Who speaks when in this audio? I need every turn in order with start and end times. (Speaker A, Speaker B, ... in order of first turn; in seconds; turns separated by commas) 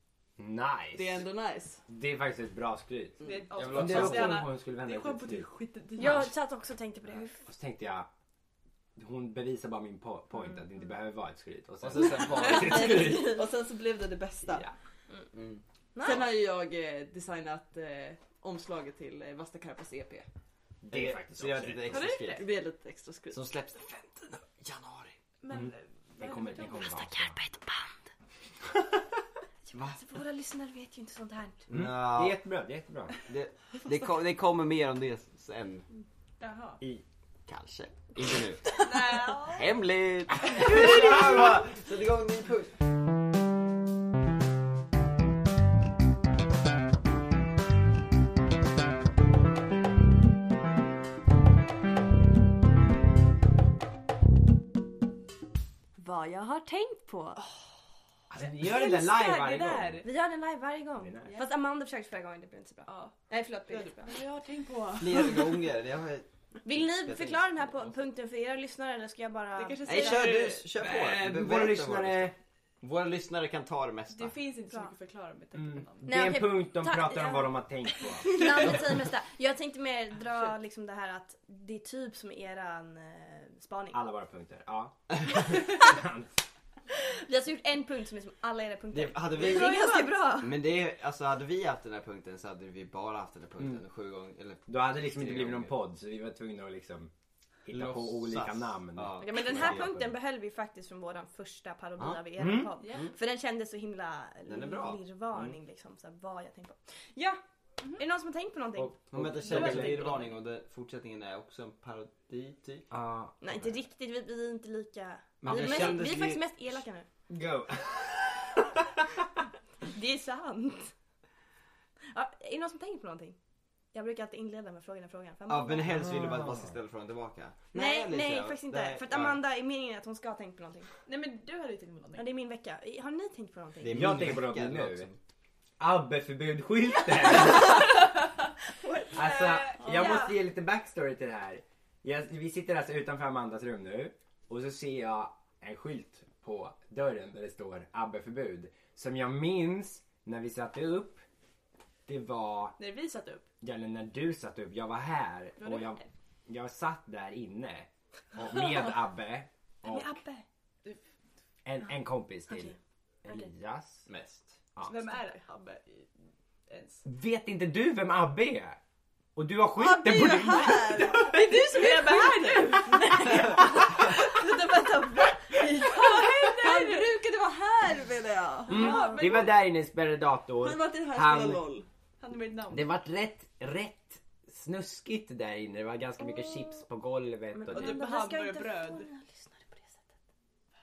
Speaker A: 0.4-1.2, Speaker B: 0.9-1.8, Speaker A: 1.9-3.2, Speaker C: 3.2-6.3, Speaker D: 3.5-4.5, Speaker A: 3.7-5.5, Speaker E: 6.0-7.4, Speaker A: 7.2-8.1, Speaker A: 8.9-13.4, Speaker D: 11.8-13.0, Speaker B: 12.4-14.7, Speaker E: 12.5-13.4, Speaker D: 15.3-15.6, Speaker E: 15.9-16.2, Speaker B: 16.0-20.3, Speaker A: 20.8-22.0, Speaker D: 20.9-22.4, Speaker C: 21.9-22.4, Speaker B: 22.4-23.4, Speaker D: 23.3-25.1, Speaker C: 25.4-26.9, Speaker A: 25.5-27.4, Speaker E: 26.6-28.0, Speaker E: 29.7-31.6, Speaker D: 29.7-30.0, Speaker D: 31.7-32.4, Speaker A: 31.7-33.1, Speaker D: 33.2-35.9, Speaker C: 36.4-36.8, Speaker D: 37.5-42.7, Speaker C: 38.8-39.6, Speaker E: 56.0-57.5, Speaker A: 58.3-60.0, Speaker C: 58.6-60.1, Speaker E: 60.0-64.2, Speaker A: 61.0-61.4, Speaker C: 62.9-63.1, Speaker C: 63.7-65.4, Speaker D: 65.0-67.8, Speaker E: 66.6-70.3, Speaker C: 69.5-70.7, Speaker D: 69.8-74.4, Speaker A: 70.8-72.3, Speaker C: 74.1-76.2, Speaker A: 75.5-78.8, Speaker E: 76.0-84.0, Speaker C: 78.2-78.6, Speaker A: 83.9-86.3, Speaker E: 87.0-90.5, Speaker D: 88.9-95.7, Speaker C: 89.5-90.0, Speaker A: 94.7-97.1, Speaker A: 97.6-100.1, Speaker D: 97.7-100.0, Speaker E: 99.2-107.4, Speaker D: 102.0-102.2, Speaker A: 102.4-102.7, Speaker C: 102.8-103.1, Speaker D: 104.5-105.5, Speaker E: 108.0-109.0, Speaker A: 108.8-110.1, Speaker D: 109.1-112.9, Speaker C: 109.7-110.0, Speaker A: 112.9-113.7, Speaker E: 113.4-117.1, Speaker D: 115.4-116.4, Speaker A: 115.4-116.2, Speaker A: 117.3-118.8, Speaker E: 119.8-120.9, Speaker E: 122.1-123.4, Speaker E: 123.9-125.9, Speaker D: 125.5-129.4, Speaker A: 125.8-126.8, Speaker E: 127.7-130.9, Speaker C: 131.0-132.3, Speaker E: 132.1-134.2, Speaker D: 133.8-135.2, Speaker A: 133.9-135.1, Speaker A: 135.8-137.9, Speaker E: 138.8-140.3, Speaker C: 139.0-140.2, Speaker A: 139.1-151.2, Speaker A: 152.1-152.8, Speaker C: 152.8-153.4, Speaker A: 153.6-160.2, Speaker C: 155.6-156.1, Speaker E: 159.9-160.4, Speaker A: 161.7-164.1, Speaker E: 162.5-162.7, Speaker D: 164.1-164.6, Speaker A: 164.8-165.1, Speaker C: 164.8-166.1, Speaker C: 166.7-167.0, Speaker A: 167.0-168.8, Speaker A: 169.3-171.4, Speaker B: 169.8-171.3, Speaker C: 171.0-177.1, Speaker B: 176.4-179.0, Speaker C: 178.7-179.5, Speaker A: 178.7-181.6, Speaker E: 178.7-179.2, Speaker B: 180.6-181.9, Speaker C: 182.2-182.9, Speaker A: 182.7-188.0, Speaker E: 187.5-190.0, Speaker C: 187.7-189.1